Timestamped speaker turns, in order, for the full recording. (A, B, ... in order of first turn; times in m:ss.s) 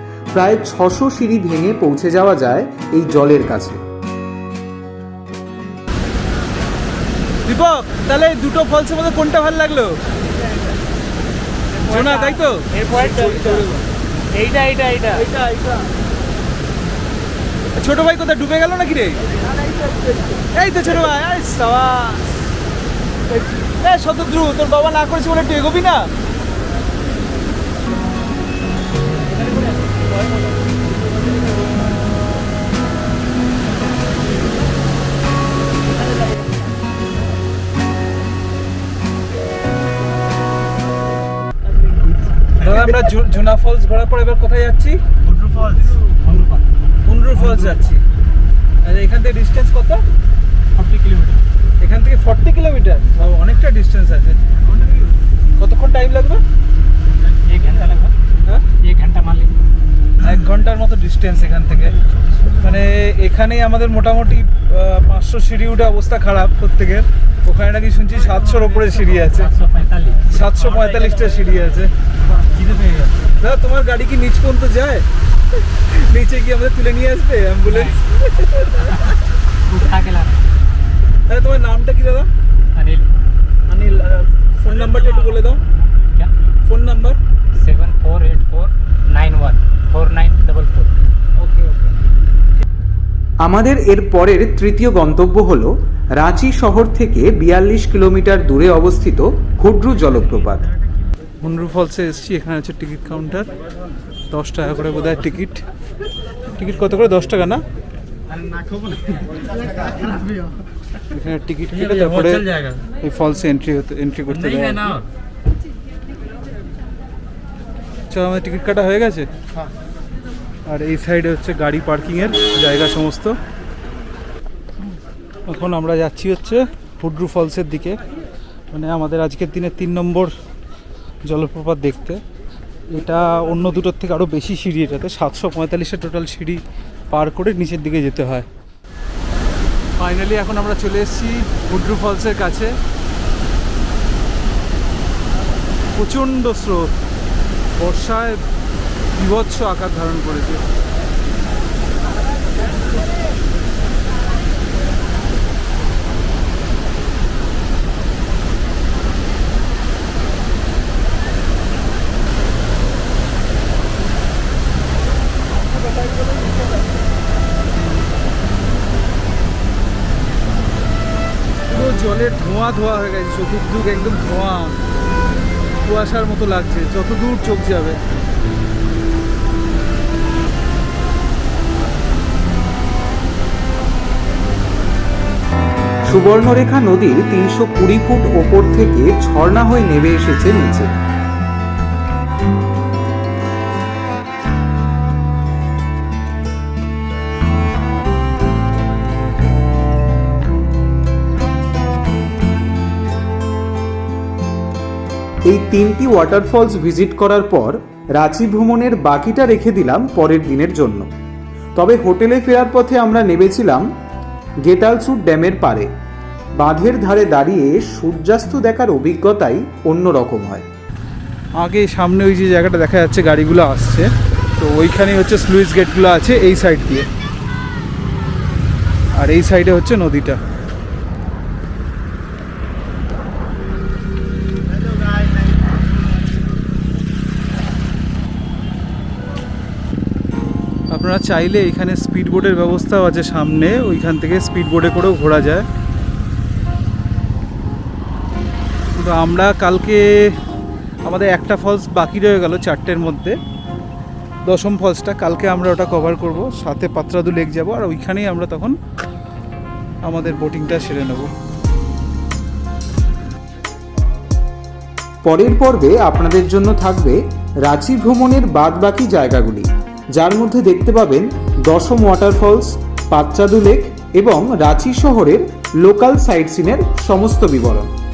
0:00.3-0:03.8 A
0:07.4-0:10.0 B
0:11.8-0:13.9 B
0:12.9-0:13.4 C
0:13.1-0:13.5 D
0:14.4-0:15.2 C
0:14.6-0:15.1 D
0:15.3-0:15.8 B
0:17.7-0:19.2 B
0:19.8-0:20.1 D
0:20.5-0:22.3 B
0:23.4-0:26.1 B
0:41.9-0:42.6 D
0:42.6-0:45.0 B
0:45.3-0:46.6 D
0:47.0-0:48.0 B
0:47.4-0:47.9 D
0:48.8-0:50.0 B
0:50.8-0:51.4 D
0:51.8-0:54.4 B
0:55.6-0:56.4 B
0:57.4-0:58.1 D
0:58.3-0:58.6 B
0:58.8-0:59.6 D
1:00.2-1:01.9 B
1:02.1-1:02.6 D
1:02.6-1:09.5 B
1:08.2-1:10.3 D
1:10.3-1:11.9 B
1:12.4-1:13.1 D
1:13.4-1:15.0 B
1:15.6-1:18.9 B
1:17.6-1:18.0 D
1:18.8-1:20.4 D
1:21.3-1:22.3 B
1:22.7-1:23.1 D
1:23.7-1:25.6 B
1:26.6-1:27.2 B
1:27.5-1:30.9 D
1:31.4-1:31.9 B
1:33.4-1:40.6 A
1:41.4-1:43.5 B
1:44.3-1:45.6 B
1:46.5-1:47.6 B
1:51.1-1:52.5 B
1:51.8-1:52.8 C
1:53.0-1:54.9 B
1:58.1-1:59.3 B
2:00.7-2:03.4 B
2:05.5-2:08.0 B
2:08.7-2:10.3 B
2:11.3-2:12.2 B
2:12.9-2:18.5 B
2:20.0-2:22.7 B
2:26.0-2:26.9 B
2:27.8-2:28.4 B
2:29.1-2:30.6 B
2:51.7-2:54.8 B
2:55.8-2:58.0 B
3:06.1-3:10.9 A
3:25.5-3:31.1 A
3:31.8-3:33.8 A
3:34.6-3:35.9 A
3:36.6-3:40.6 A
3:41.6-3:47.1 B
3:49.2-3:50.4 B
4:00.9-4:05.6 B
4:09.0-4:10.3 B
4:11.0-4:13.4 B
4:14.4-4:18.8 B
4:20.0-4:21.3 B
4:25.2-4:37.9 A